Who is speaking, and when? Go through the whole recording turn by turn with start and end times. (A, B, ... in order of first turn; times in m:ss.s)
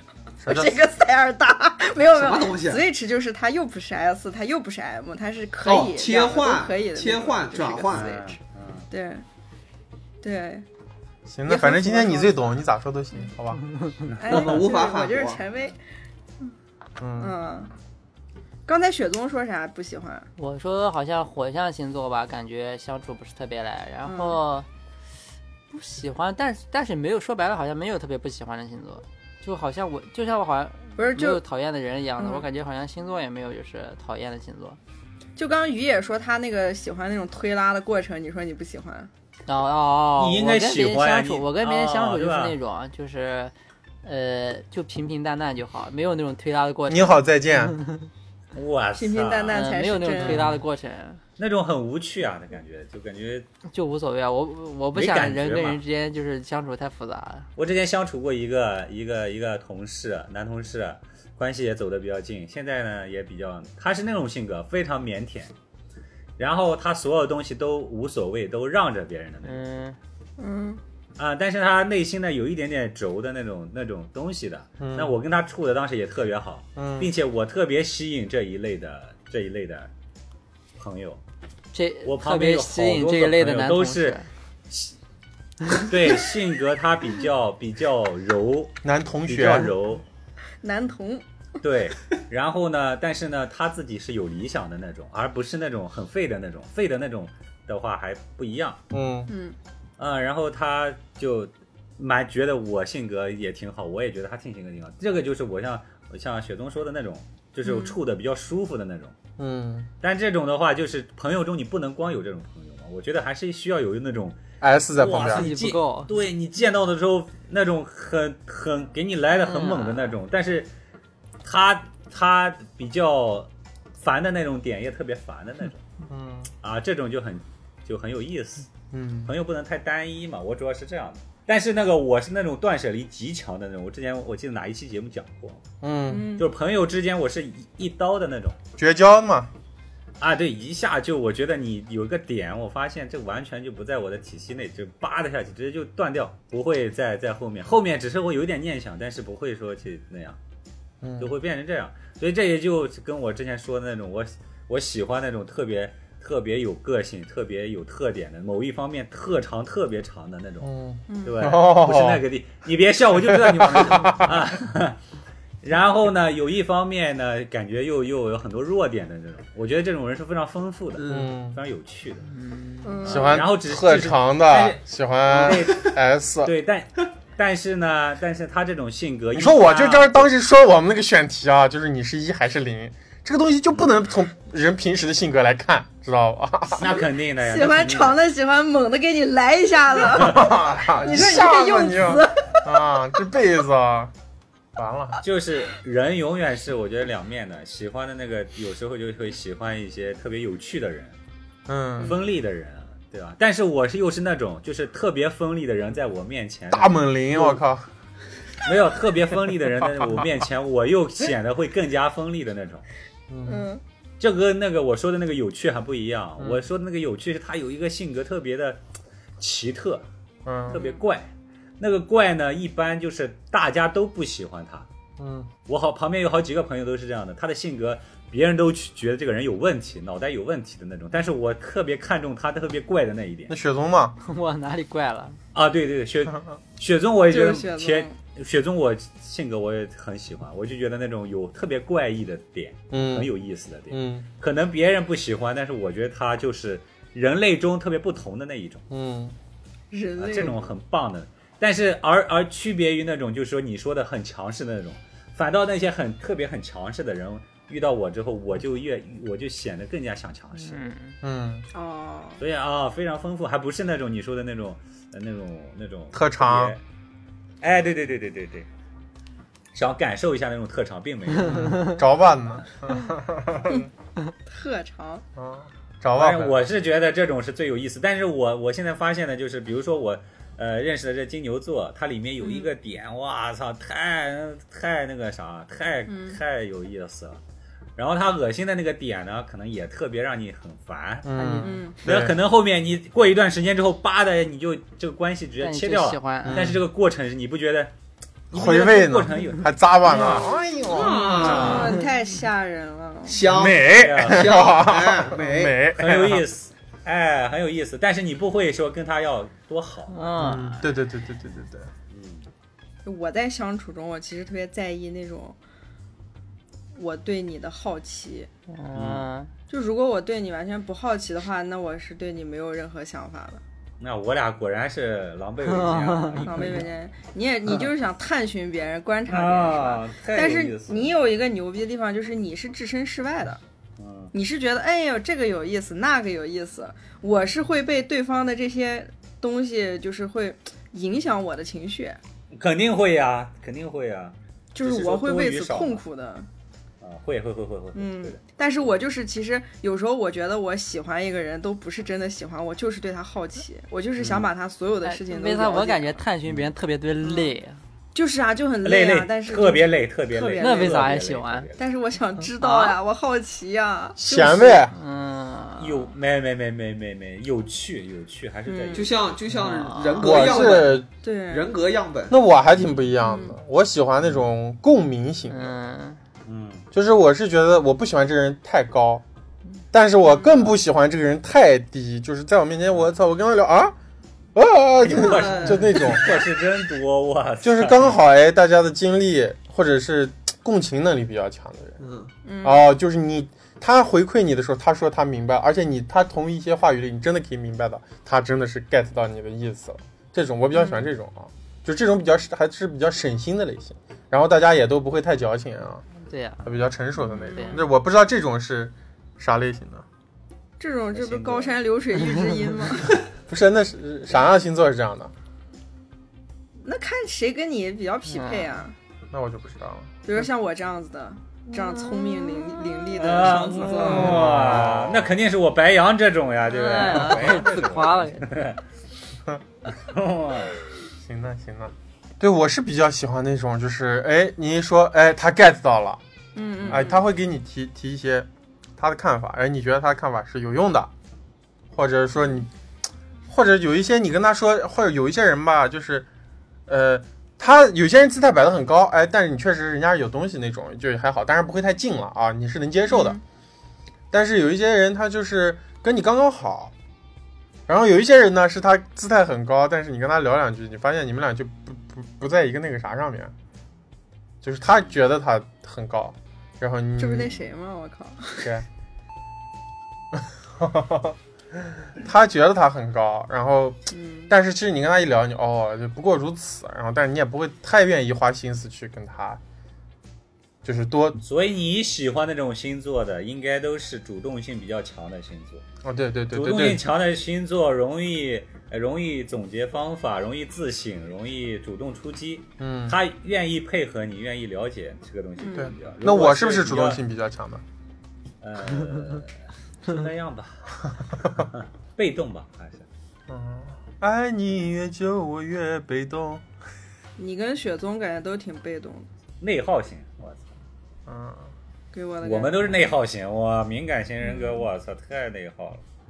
0:00.4-0:00.8 A
0:00.5-0:08.4 B
0:02.2-0:02.8 C
0:05.6-0:08.2 C
0:07.9-0:08.9 D
0:08.9-0:09.2 B
0:10.2-0:10.6 B
0:11.3-0:13.6 A
0:11.5-0:12.6 B
0:14.1-0:14.5 D
0:14.2-0:15.8 B
0:14.2-0:15.4 C
0:17.0-0:17.3 A
0:17.2-0:17.7 B
0:18.7-0:20.3 B
0:20.4-0:24.7 E
0:24.0-0:24.4 B
0:25.7-0:34.8 E
0:31.0-0:31.4 B
0:32.2-0:32.5 B
0:35.4-0:39.1 B
0:39.5-0:47.1 E
0:40.2-0:42.6 D
0:46.9-0:47.8 A
0:47.7-0:48.0 E
0:48.5-0:49.6 D
0:49.0-0:50.4 B
0:49.5-0:51.2 E
0:51.4-0:53.5 D
0:53.7-0:57.5 E
0:54.9-0:55.8 D
0:57.6-1:05.5 D
1:06.4-1:09.7 D
1:09.4-1:10.0 E
1:10.4-1:10.8 B
1:11.2-1:19.9 D
1:14.8-1:15.1 A
1:16.8-1:17.1 A
1:20.8-1:21.2 D
1:21.7-1:24.3 E
1:22.0-1:24.2 D
1:25.8-1:28.8 D
1:28.8-1:29.7 A
1:29.3-1:30.0 D
1:30.6-1:31.2 B
1:31.6-1:38.8 D
1:38.9-1:39.3 A
1:39.3-1:39.6 B
1:40.0-1:49.2 D
1:47.6-1:48.0 B
1:49.4-1:49.9 A
1:50.0-1:54.4 D
1:54.6-1:55.5 A
1:55.0-2:00.7 D
1:55.2-1:56.1 E
1:59.3-2:00.1 E
2:01.4-2:03.5 D
2:04.0-2:05.8 D
2:06.1-2:06.5 A
2:06.6-2:08.7 D
2:08.9-2:09.3 A
2:09.3-2:15.6 D
2:15.8-2:16.3 A
2:16.1-2:16.5 B
2:16.4-2:18.6 D
2:18.8-2:19.5 A
2:20.2-2:30.4 D
2:31.0-2:31.3 A
2:31.2-2:40.7 D
2:40.6-2:42.2 A
2:41.1-2:41.4 B
2:41.2-2:45.0 D
2:43.2-2:44.4 A
2:45.6-2:52.3 D
2:51.0-2:51.3 C
2:51.0-2:51.6 A
2:52.3-2:53.0 E
2:52.8-2:53.4 B
2:53.0-2:56.5 A
2:53.0-3:00.3 D
2:55.4-2:55.8 C
2:59.3-3:06.9 A
3:06.8-3:08.2 D
3:07.4-3:12.6 B
3:10.1-3:14.1 A
3:14.8-3:15.2 A
3:15.2-3:21.2 D
3:21.7-3:22.2 A
3:22.0-3:27.6 D
3:26.7-3:27.9 A
3:28.6-3:32.9 D
3:33.3-3:33.7 A
3:33.5-3:33.8 B
3:34.2-3:38.8 D
3:39.4-3:40.0 D
3:40.5-3:40.8 A
3:40.7-3:44.9 D
3:40.7-3:41.0 B
3:45.2-3:45.5 A
3:45.7-3:53.6 D
3:53.5-3:54.2 A
3:54.2-3:55.4 E
3:55.5-4:08.8 D
3:57.3-3:58.2 B
4:02.9-4:03.3 A
4:03.9-4:04.3 A
4:08.9-4:09.4 A
4:09.9-4:10.7 B
4:10.2-4:20.8 D
4:20.6-4:21.2 E
4:21.2-4:21.7 A
4:21.7-4:22.4 B
4:22.4-4:26.8 D
4:26.1-4:26.8 A
4:27.6-4:28.7 D
4:29.7-4:32.0 D
4:31.5-4:32.0 E
4:31.5-4:33.9 A
4:34.5-4:35.2 B
4:35.4-4:36.6 A
4:36.2-4:47.4 D
4:42.4-4:42.7 B
4:46.1-4:46.4 B
4:48.0-4:51.3 D
4:51.3-4:52.4 A
4:51.3-4:51.8 E
4:51.6-4:52.0 B
4:52.0-4:57.9 D
4:55.6-4:56.7 E
4:56.5-4:56.8 A
4:58.5-5:00.5 D
4:58.5-5:01.7 A
5:00.8-5:01.9 C
5:01.3-5:02.0 E
5:01.4-5:03.4 B
5:01.4-5:01.7 D
5:03.3-5:05.8 C
5:03.4-5:06.5 A
5:03.9-5:04.7 D
5:05.9-5:10.3 D
5:10.1-5:10.9 E
5:10.4-5:11.9 A
5:12.1-5:12.5 D
5:13.0-5:15.6 B
5:16.9-5:18.5 B
5:18.7-5:19.5 E
5:18.9-5:19.3 D
5:19.7-5:23.6 B
5:24.0-5:26.9 D
5:25.7-5:26.8 E
5:26.4-5:33.6 B
5:29.3-5:31.1 D
5:34.0-5:34.3 D
5:34.3-5:42.2 B
5:42.5-5:46.0 D
5:44.8-5:46.5 B
5:47.0-5:48.4 D
5:48.0-5:56.2 B
5:54.2-5:54.5 D
5:55.0-5:57.8 E
5:57.2-5:57.5 B
5:58.1-6:01.1 B
5:58.8-6:01.8 D
6:00.6-6:01.7 E
6:01.8-6:04.8 B
6:02.6-6:03.0 E
6:04.2-6:05.0 A
6:04.9-6:06.1 E
6:05.8-6:09.2 D
6:08.7-6:09.1 B
6:08.9-6:12.4 C
6:09.5-6:10.5 E
6:10.2-6:11.1 A
6:11.2-6:11.7 B
6:12.3-6:15.8 A
6:13.2-6:13.6 B
6:15.5-6:16.2 E
6:16.5-6:16.9 D
6:16.9-6:19.2 A
6:19.9-6:23.9 A
6:24.6-6:26.4 A
6:25.0-6:28.2 D
6:25.1-6:26.4 C
6:27.6-6:32.0 A
6:32.0-6:32.3 C
6:32.4-6:32.9 B
6:32.6-6:46.0 A
6:40.8-6:41.1 B
6:46.2-6:46.8 E
6:46.6-6:50.0 A
6:47.3-6:47.9 B
6:47.4-6:47.8 E
6:50.8-6:53.2 B
6:51.1-6:51.8 D
6:53.5-6:55.3 A
6:56.8-6:59.0 B
6:58.3-6:58.8 E
6:59.3-7:00.1 A
7:00.2-7:04.5 B
7:01.9-7:02.7 E
7:03.1-7:08.8 D
7:04.1-7:05.3 A
7:06.7-7:08.6 E
7:09.9-7:10.8 D
7:11.2-7:16.2 A
7:16.6-7:17.2 B
7:16.9-7:21.1 A
7:21.9-7:22.7 A
7:23.5-7:26.3 A
7:26.9-7:33.4 A
7:33.1-7:33.4 B
7:34.3-7:36.9 A
7:37.9-7:43.5 A
7:44.6-7:47.6 A
7:47.2-7:48.7 B
7:50.3-7:51.4 A
7:52.0-7:59.6 A
7:54.1-7:54.5 B
8:00.8-8:01.4 A
8:01.4-8:05.8 D
8:06.0-8:07.1 A
8:06.5-8:17.2 D
8:12.8-8:13.2 A
8:15.6-8:15.9 B
8:15.8-8:17.8 A
8:18.6-8:19.5 D
8:20.0-8:23.1 D
8:23.5-8:26.6 A
8:27.4-8:29.3 B
8:29.6-8:30.7 D
8:31.3-8:31.7 A
8:32.1-8:33.0 B
8:32.4-8:36.0 D